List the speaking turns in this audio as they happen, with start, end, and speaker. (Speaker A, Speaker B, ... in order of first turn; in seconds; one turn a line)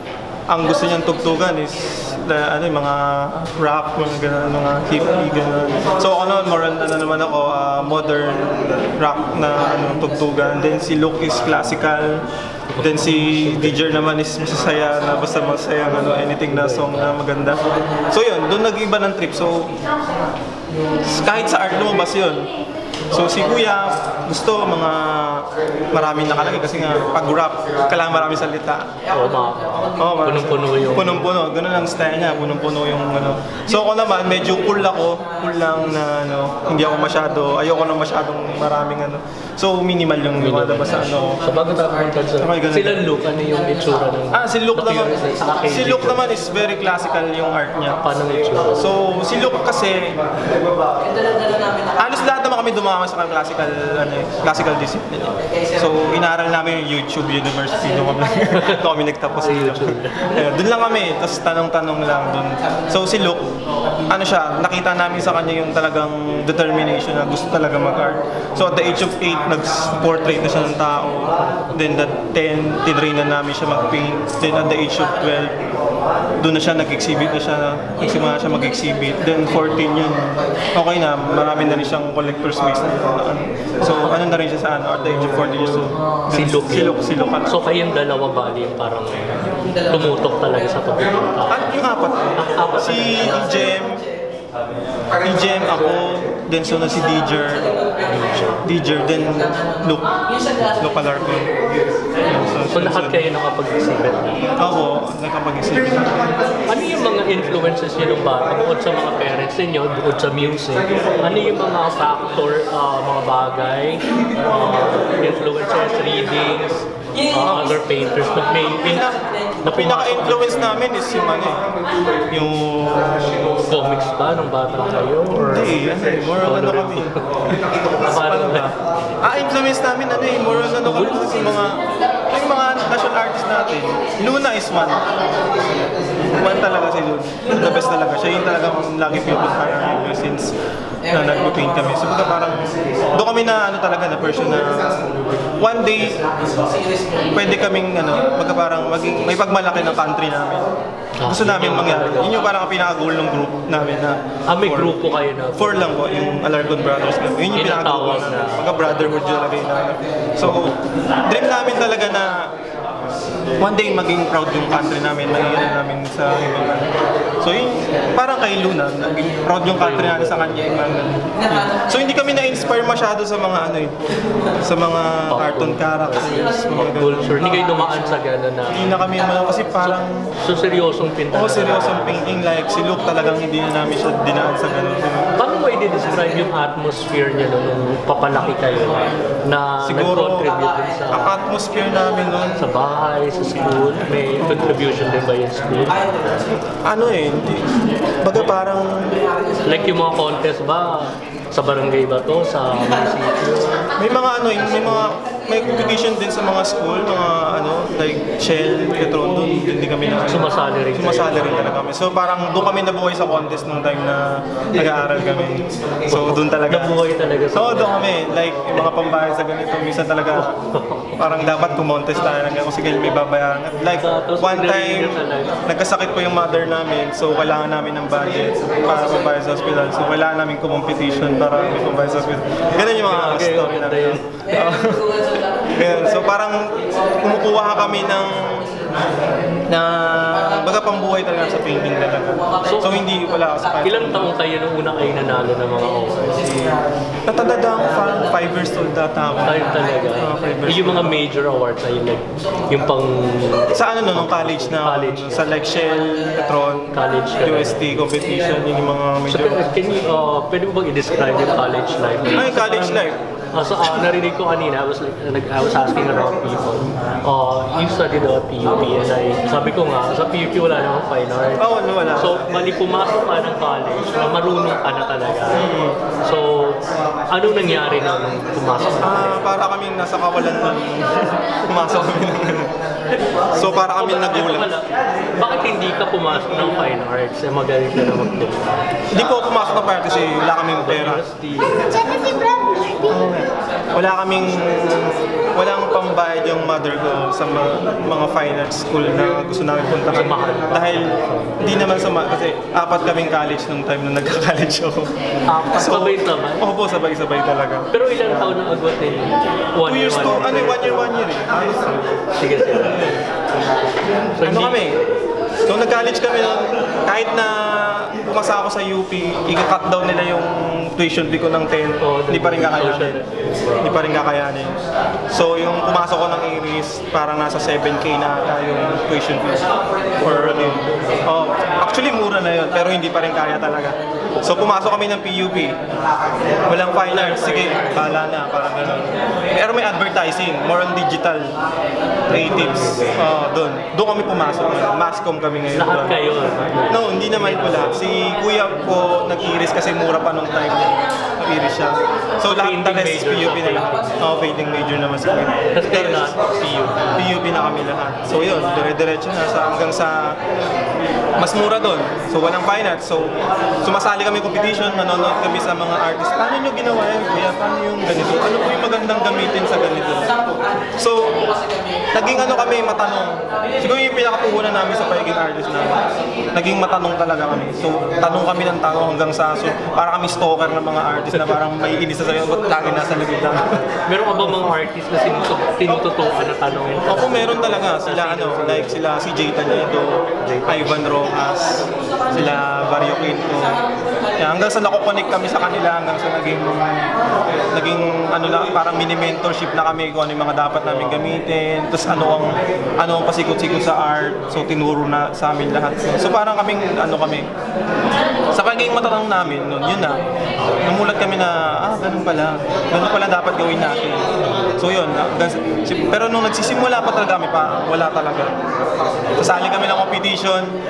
Speaker A: 0.5-12.2
Speaker B: 12.7-14.0
Speaker A: 12.8-19.7
Speaker B: 16.5-17.2
Speaker A: 21.0-22.5
Speaker A: 23.1-28.9
Speaker B: 29.1-31.3
Speaker A: 30.0-41.4
Speaker B: 40.4-46.2
Speaker A: 42.4-43.1
Speaker A: 44.3-48.0
Speaker B: 48.0-48.9
Speaker A: 48.7-50.2
Speaker A: 52.0-63.5
Speaker B: 59.4-60.5
Speaker A: 64.1-75.5
Speaker A: 76.4-87.7
Speaker B: 83.8-84.2
Speaker B: 86.3-91.7
Speaker A: 91.5-94.0
Speaker B: 92.4-93.7
Speaker A: 95.2-97.8
Speaker B: 98.0-98.6
Speaker A: 98.6-100.1
Speaker A: 100.8-101.5
Speaker A: 102.2-103.2
Speaker B: 102.7-104.5
Speaker A: 104.6-106.2
Speaker B: 106.7-119.0
Speaker A: 117.3-117.8
Speaker A: 118.8-121.7
Speaker B: 119.6-120.8
Speaker A: 122.3-123.3
Speaker B: 123.6-125.9
Speaker A: 125.3-127.1
Speaker B: 126.4-127.2
Speaker B: 128.0-128.7
Speaker A: 128.0-135.1
Speaker B: 130.6-131.7
Speaker A: 136.2-140.5
Speaker A: 141.1-146.2
Speaker A: 147.3-150.7
Speaker B: 151.2-152.5
Speaker A: 151.2-155.0
Speaker B: 154.5-156.0
Speaker A: 155.6-162.5
Speaker B: 157.5-158.9
Speaker B: 160.4-160.7
Speaker A: 163.6-173.9
Speaker B: 169.7-170.8
Speaker A: 174.6-177.6
Speaker B: 175.3-178.9
Speaker A: 178.7-180.3
Speaker B: 180.4-182.4
Speaker A: 181.3-185.3
Speaker B: 185.4-191.4
Speaker A: 189.8-190.5
Speaker A: 191.1-192.6
Speaker B: 192.6-196.0
Speaker A: 194.4-194.8
Speaker A: 196.7-199.3
Speaker B: 199.6-203.9
Speaker A: 204.0-217.0
Speaker B: 210.2-211.8
Speaker B: 216.1-218.9
Speaker A: 217.5-220.5
Speaker B: 220.4-221.5
Speaker A: 221.2-238.8
Speaker B: 224.0-225.6
Speaker B: 233.0-234.7
Speaker A: 239.7-244.3
Speaker B: 242.7-243.0
Speaker B: 243.8-246.7
Speaker A: 247.3-251.2
Speaker B: 249.4-255.6
Speaker A: 253.7-259.7
Speaker B: 256.9-258.0
Speaker B: 259.3-275.7
Speaker A: 262.3-263.2
Speaker A: 271.6-272.4
Speaker A: 275.5-276.0
Speaker B: 276.2-279.4
Speaker A: 279.0-282.7
Speaker A: 283.5-284.7
Speaker B: 283.9-284.9
Speaker B: 285.4-288.8
Speaker A: 289.1-291.2
Speaker B: 290.8-292.8
Speaker A: 293.0-305.1
Speaker B: 300.1-302.2
Speaker B: 305.5-306.6
Speaker A: 305.7-307.9
Speaker B: 307.9-311.1
Speaker A: 309.9-312.0
Speaker B: 312.2-313.1
Speaker A: 312.8-313.2
Speaker B: 314.4-314.8
Speaker A: 314.4-315.0
Speaker A: 315.7-323.2
Speaker B: 322.0-324.0
Speaker A: 323.8-324.8
Speaker A: 325.3-329.7
Speaker B: 330.2-331.2
Speaker A: 330.2-335.8
Speaker A: 336.6-341.5
Speaker B: 337.1-338.1
Speaker A: 342.3-346.2
Speaker B: 342.3-343.2
Speaker B: 345.7-348.0
Speaker A: 346.9-356.3
Speaker B: 352.4-354.2
Speaker B: 355.7-357.3
Speaker A: 357.1-360.4
Speaker A: 361.4-363.3
Speaker A: 363.8-370.3
Speaker A: 371.0-371.4
Speaker A: 372.1-383.8
Speaker B: 384.1-389.0
Speaker A: 384.4-384.7
Speaker A: 387.1-393.8
Speaker B: 390.4-391.1
Speaker A: 394.4-397.2
Speaker A: 397.7-407.5
Speaker B: 400.9-401.2
Speaker A: 408.5-410.2
Speaker A: 410.8-414.2
Speaker B: 414.5-414.8
Speaker A: 414.8-418.5
Speaker A: 419.4-420.7